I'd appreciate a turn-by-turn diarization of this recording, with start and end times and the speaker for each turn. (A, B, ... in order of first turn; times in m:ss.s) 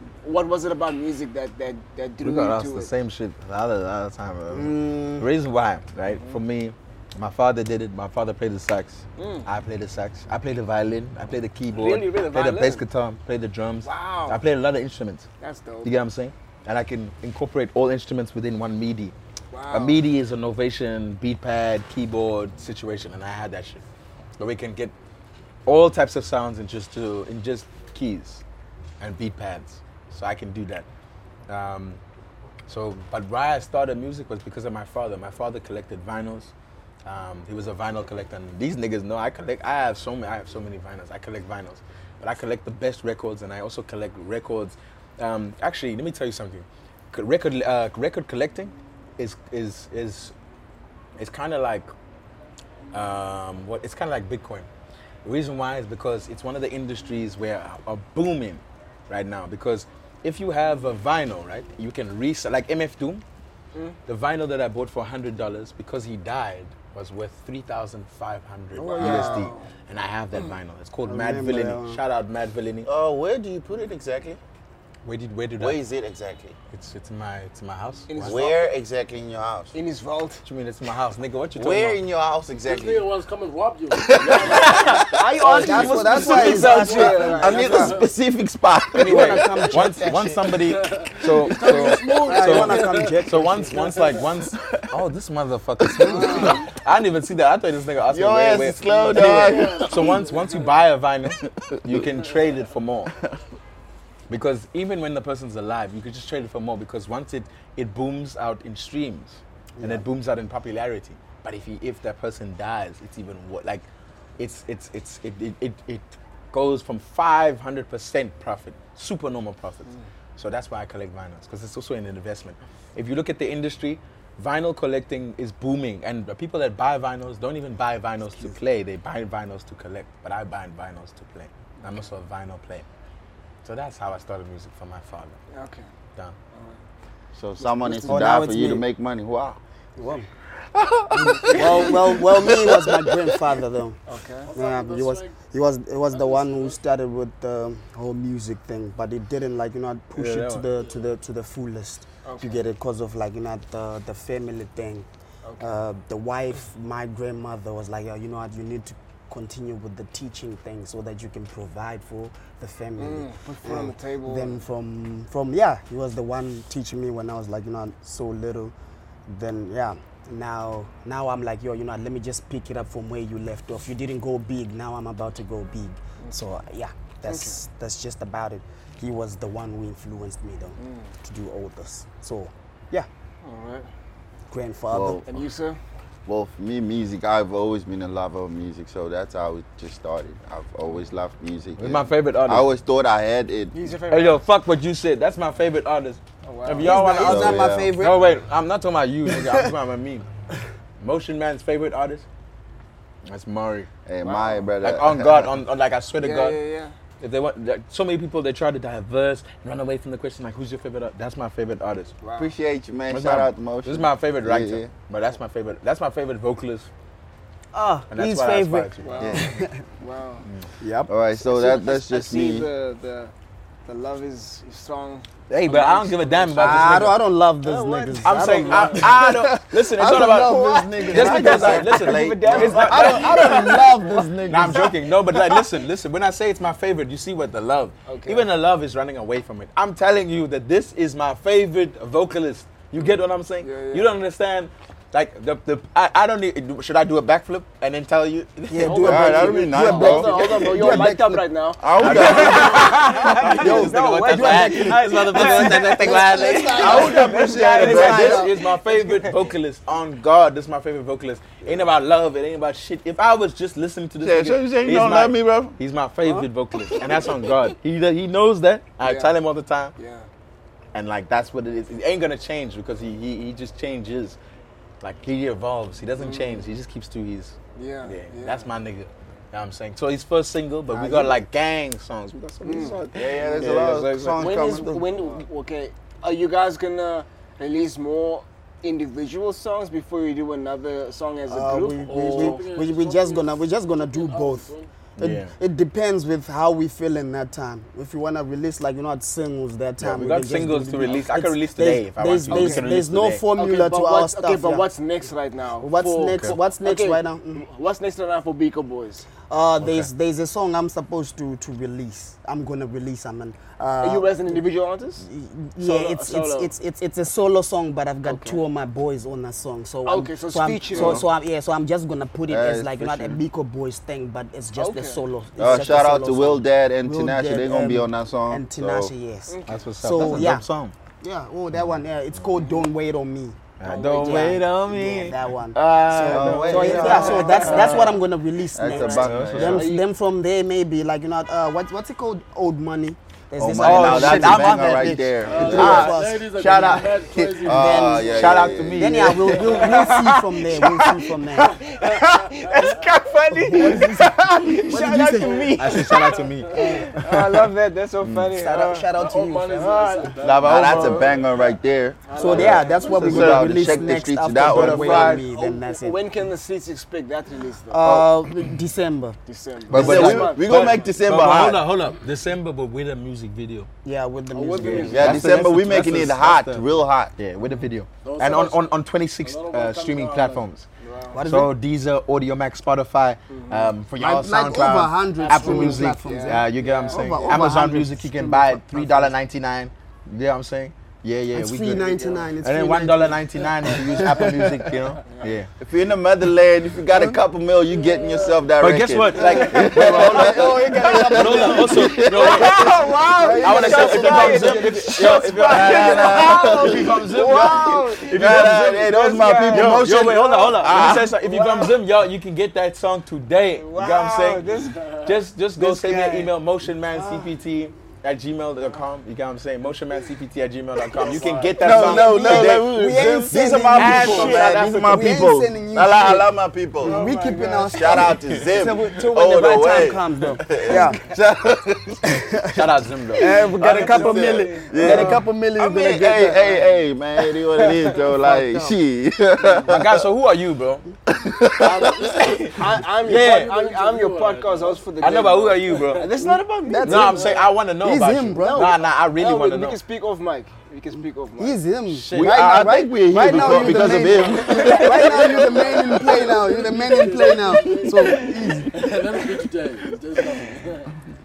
0:00.2-0:02.9 A
0:02.2-0:15.3 B
0:04.5-0:05.2 C
0:06.1-0:06.4 A
0:09.2-0:09.5 A
0:11.7-0:12.8 A
0:13.8-0:14.4 A
0:15.4-0:15.9 A
0:15.8-0:19.1 B
0:19.5-0:20.0 A
0:19.7-0:23.8 B
0:24.4-0:24.9 B
0:25.6-0:28.4 B
0:29.0-0:30.9 B
0:31.5-0:32.0 B
0:32.7-0:36.5 B
0:37.0-0:50.3 B
0:51.2-0:51.9 B
0:52.9-0:54.7 B
0:55.2-1:03.2 B
1:04.1-1:12.9 B
1:08.8-1:09.5 C
1:08.9-1:09.7 A
1:11.0-1:12.0 C
1:12.8-1:14.4 D
1:15.0-1:15.8 B
1:15.6-1:16.6 D
1:16.7-1:18.4 B
1:18.1-1:18.7 A
1:18.2-1:19.7 D
1:19.7-1:20.4 A
1:20.4-1:22.0 B
1:21.6-1:23.0 D
1:22.6-1:25.1 E
1:23.9-1:25.1 D
1:24.2-1:28.0 A
1:25.4-1:28.0 C
1:26.2-1:28.1 E
1:26.4-1:29.8 D
1:29.0-1:30.4 C
1:29.0-1:43.1 B
1:30.5-1:34.3 E
1:31.6-1:34.0 C
1:35.8-1:36.4 D
1:36.1-1:36.6 C
1:38.1-1:40.3 D
1:39.2-1:40.8 E
1:41.4-1:42.0 D
1:44.3-1:53.8 B
1:49.8-1:50.0 C
1:54.4-2:12.8 B
2:13.6-2:15.4 B
2:15.5-2:15.9 A
2:16.5-2:16.8 A
2:17.3-2:19.6 D
2:17.6-2:18.3 A
2:18.0-2:18.8 C
2:20.0-2:20.2 C
2:20.7-2:23.4 D
2:21.1-2:24.0 C
2:24.1-2:24.5 A
2:24.4-2:25.4 E
2:24.5-2:35.0 C
2:26.1-2:26.8 E
2:30.1-2:30.7 B
2:32.2-2:32.6 A
2:35.4-2:35.8 A
2:35.6-2:48.7 C
2:43.0-2:44.6 A
2:49.3-3:03.1 C
2:57.2-2:57.6 A
3:00.8-3:01.1 A
3:03.4-3:03.9 A
3:04.5-3:05.2 C
3:04.9-3:05.2 D
3:05.2-3:05.8 A
3:06.2-3:13.8 D
3:11.8-3:12.6 B
3:13.7-3:14.4 A
3:14.1-3:20.2 B
3:16.4-3:17.0 A
3:16.8-3:18.2 C
3:17.1-3:17.9 D
3:21.0-3:22.2 B
3:23.2-3:23.9 B
3:24.0-3:25.5 D
3:24.2-3:24.7 A
3:24.8-3:26.6 B
3:26.2-3:26.9 A
3:27.2-3:32.1 B
3:32.2-3:32.5 A
3:32.4-3:34.9 D
3:33.1-3:36.9 B
3:37.7-3:39.8 C
3:38.1-3:39.2 B
3:39.0-3:40.4 A
3:39.2-3:39.5 D
3:40.8-3:41.1 C
3:41.1-3:42.7 D
3:41.4-3:43.3 A
3:43.8-3:49.2 A
3:45.5-3:47.2 B
3:46.6-3:51.9 C
3:48.2-3:53.9 B
3:51.0-3:53.8 D
3:51.0-3:54.3 A
3:52.5-3:55.0 C
3:54.4-4:09.3 B
3:58.1-3:58.5 A
4:03.6-4:04.1 A
4:08.7-4:11.4 C
4:08.8-4:19.4 A
4:09.0-4:10.8 D
4:11.8-4:13.0 D
4:12.0-4:29.9 B
4:13.3-4:18.5 C
4:16.7-4:18.4 D
4:24.2-4:25.8 D
4:27.0-4:27.2 A
4:29.0-4:29.4 A
4:30.0-4:30.3 A
4:30.9-4:34.4 B
4:35.0-4:44.6 B
4:36.2-4:36.7 A
4:37.8-4:38.7 A
4:40.9-4:41.3 C
4:42.6-4:43.0 A
4:43.1-4:45.2 D
4:44.4-4:52.6 A
4:51.5-5:04.8 C
4:52.0-4:54.9 E
4:55.2-4:55.5 B
5:00.0-5:03.4 B
5:02.5-5:02.9 A
5:03.6-5:09.3 A
5:05.8-5:07.6 C
5:06.3-5:06.6 B
5:09.5-5:14.6 C
5:09.8-5:10.1 B
5:14.0-5:15.2 A
5:15.2-5:30.6 C
5:15.8-5:16.7 A
5:18.2-5:18.6 A
5:20.0-5:21.2 A
5:20.9-5:21.3 D
5:22.5-5:23.4 D
5:24.8-5:25.2 A
5:25.6-5:29.1 D
5:29.5-5:29.8 A
5:29.7-5:30.9 B
5:31.2-5:47.0 C
5:32.5-5:32.8 A
5:33.8-5:38.1 B
5:33.8-5:34.6 A
5:36.1-5:38.1 D
5:36.6-5:38.2 A
5:38.7-5:39.9 D
5:38.8-5:40.0 A
5:39.2-5:39.9 B
5:43.6-5:46.1 D
5:43.8-5:47.6 B
5:45.4-5:48.8 E
5:47.6-5:49.6 D
5:47.6-5:51.8 C
5:48.3-5:57.1 B
5:49.7-5:50.3 A
5:51.5-5:54.1 A
5:52.5-5:53.0 E
5:53.6-5:56.0 C
5:54.8-5:59.1 A
5:56.7-5:57.2 C
5:58.2-5:58.5 D
5:58.5-6:00.3 C
5:59.1-6:01.7 E
5:59.7-6:00.3 A
6:00.4-6:01.4 B
6:00.5-6:05.4 D
6:02.3-6:04.1 A
6:02.3-6:06.2 C
6:03.2-6:03.9 B
6:04.6-6:05.4 B
6:04.8-6:08.1 A
6:07.9-6:09.4 C
6:09.4-6:11.0 A
6:09.9-6:13.9 B
6:09.9-6:11.8 D
6:09.9-6:10.4 C
6:14.0-6:15.6 C
6:14.6-6:15.5 A
6:14.6-6:15.2 E
6:14.8-6:20.8 B
6:15.1-6:17.3 D
6:18.2-6:20.6 E
6:21.0-6:21.4 A
6:21.3-6:21.7 C
6:21.4-6:35.7 B
6:23.5-6:23.9 A
6:24.2-6:29.3 C
6:25.4-6:27.7 A
6:31.5-6:34.9 C
6:35.2-6:35.5 A
6:35.8-6:47.2 D
6:37.9-6:38.6 E
6:38.8-6:49.1 B
6:39.3-6:46.8 C
6:39.4-6:40.7 A
6:41.5-6:52.0 A
6:48.3-6:51.3 D
6:49.6-6:54.6 B
6:53.8-6:55.3 A
6:55.2-7:05.4 B
6:55.8-6:56.5 C
6:57.1-6:57.5 C
7:01.1-7:02.3 A
7:01.8-7:07.4 D
7:01.8-7:11.2 C
7:07.0-7:08.4 A
7:07.9-7:12.5 D
7:12.2-7:16.9 C
7:12.7-7:14.4 B
7:13.4-7:15.3 A
7:13.6-7:20.2 D
7:15.0-7:15.4 B
7:17.8-7:18.9 C
7:19.9-7:21.0 B
7:21.3-7:22.5 D
7:21.8-7:22.4 E
7:22.3-7:23.7 B
7:22.7-7:27.6 A
7:23.2-7:25.0 E
7:25.2-7:26.3 B
7:26.4-7:28.9 C
7:27.0-7:30.0 B
7:28.6-7:31.8 A
7:31.6-7:39.1 C
7:32.1-7:32.9 B
7:32.3-7:36.3 D
7:33.5-7:35.5 B
7:34.2-7:36.1 A
7:36.2-7:41.1 E